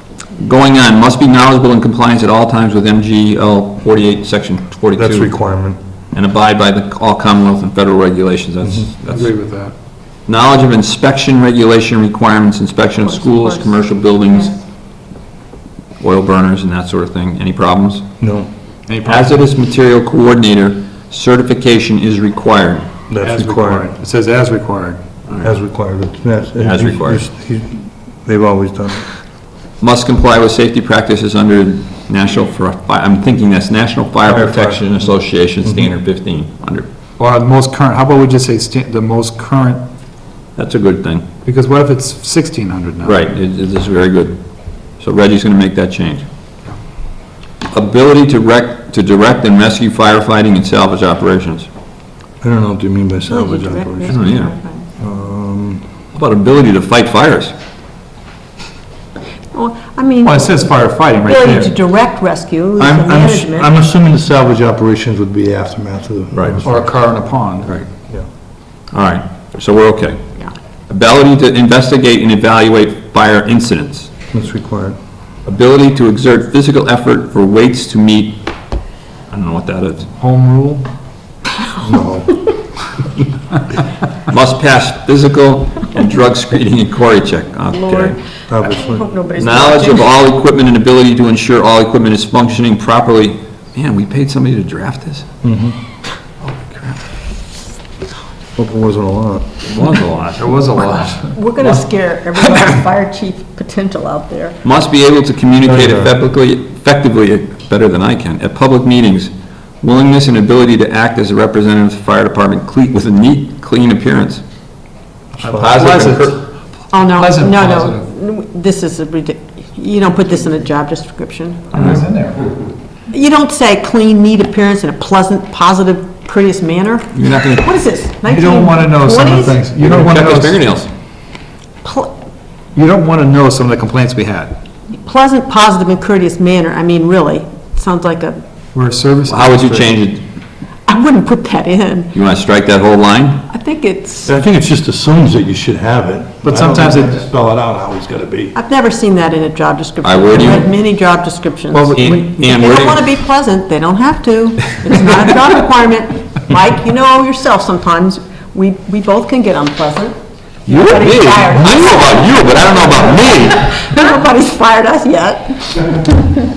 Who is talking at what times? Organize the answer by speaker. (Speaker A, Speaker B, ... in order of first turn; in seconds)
Speaker A: 0.4-5.3, 6.1-9.3, 10.3-14.5, 16.0-18.1, 19.1-22.9, 26.6-27.2, 29.8-36.9, 40.6-41.2, 43.0-44.4, 45.0-46.2, 47.7-51.7, 54.1-54.5, 56.1-57.5, 66.3-66.6, 68.9-70.2, 70.9-74.1, 75.5-78.4, 79.3-80.1, 84.3-88.2, 89.4-95.2, 96.4-97.0, 99.6-100.6, 104.6-114.4, 115.6-116.5, 121.8-122.0, 127.1-127.7, 129.8-130.9, 139.3-140.2, 142.1-143.4, 150.0-150.7, 151.9-153.1, 160.7-163.8
Speaker B: 5.0-5.8, 8.6-8.9, 18.2-18.5, 23.1-23.9, 25.4-29.1, 34.2-34.9, 35.6-35.9, 52.4-54.4, 55.0-55.9, 62.8-66.9, 74.3-75.0, 81.8-82.5, 88.5-89.0, 95.4-95.8, 98.6-99.5, 105.6-106.1, 115.4-115.9, 144.3-148.6
Speaker C: 9.1-9.7, 18.9-19.4, 23.2-25.0, 37.2-39.8, 41.5-43.3, 60.2-61.8, 66.6-67.7, 80.2-80.9, 100.4-101.8, 102.4-102.7, 115.4-116.4, 117.0-118.1, 121.7-122.5, 128.3-130.6, 132.7-134.6, 138.7-139.9, 146.4-147.2, 151.7-152.3
Speaker D: 13.0-14.6, 53.3-54.9, 59.5-60.7, 61.2-63.7, 87.7-90.1, 101.3-104.6, 116.9-121.7, 123.1-129.7, 131.8-132.1, 134.9-138.4, 140.9-142.1, 143.5-144.3, 148.6-160.2, 160.7-166.3